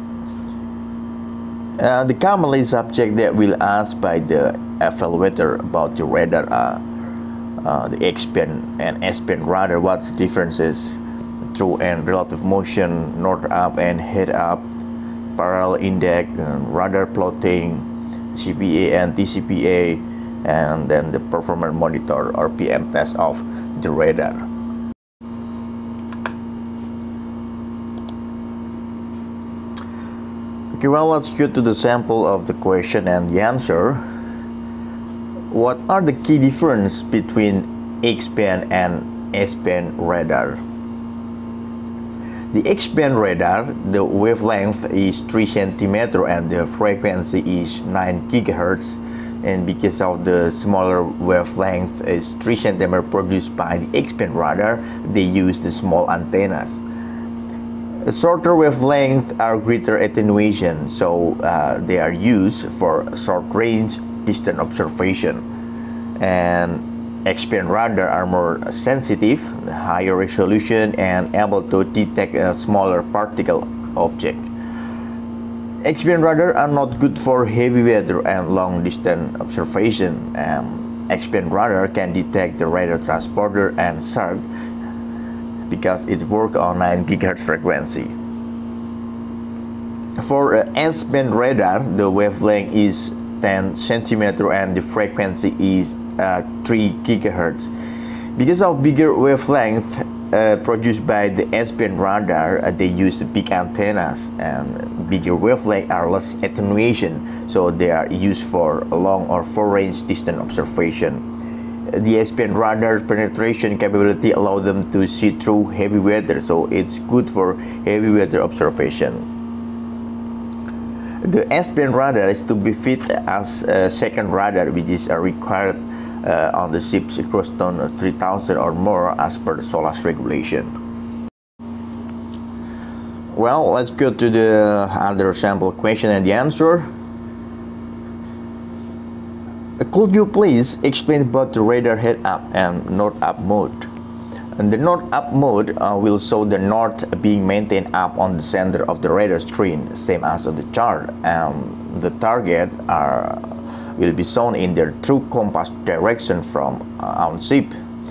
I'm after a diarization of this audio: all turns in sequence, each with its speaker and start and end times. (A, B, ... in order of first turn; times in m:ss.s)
0:01.8-0:06.8 A
0:07.6-0:11.0 A
0:11.5-0:14.6 A
0:15.4-0:24.5 A
0:30.7-0:34.0 A
0:35.5-0:40.6 A
0:42.5-0:56.8 A
0:58.0-1:05.4 A
1:06.2-1:14.5 A
1:15.8-1:24.5 A
1:25.7-1:28.1 A
1:30.2-1:37.7 A
1:38.4-1:51.2 A
1:51.9-1:59.2 A
2:01.2-2:10.7 A
2:13.3-2:16.9 A
2:19.8-2:23.9 A
2:24.6-2:37.8 A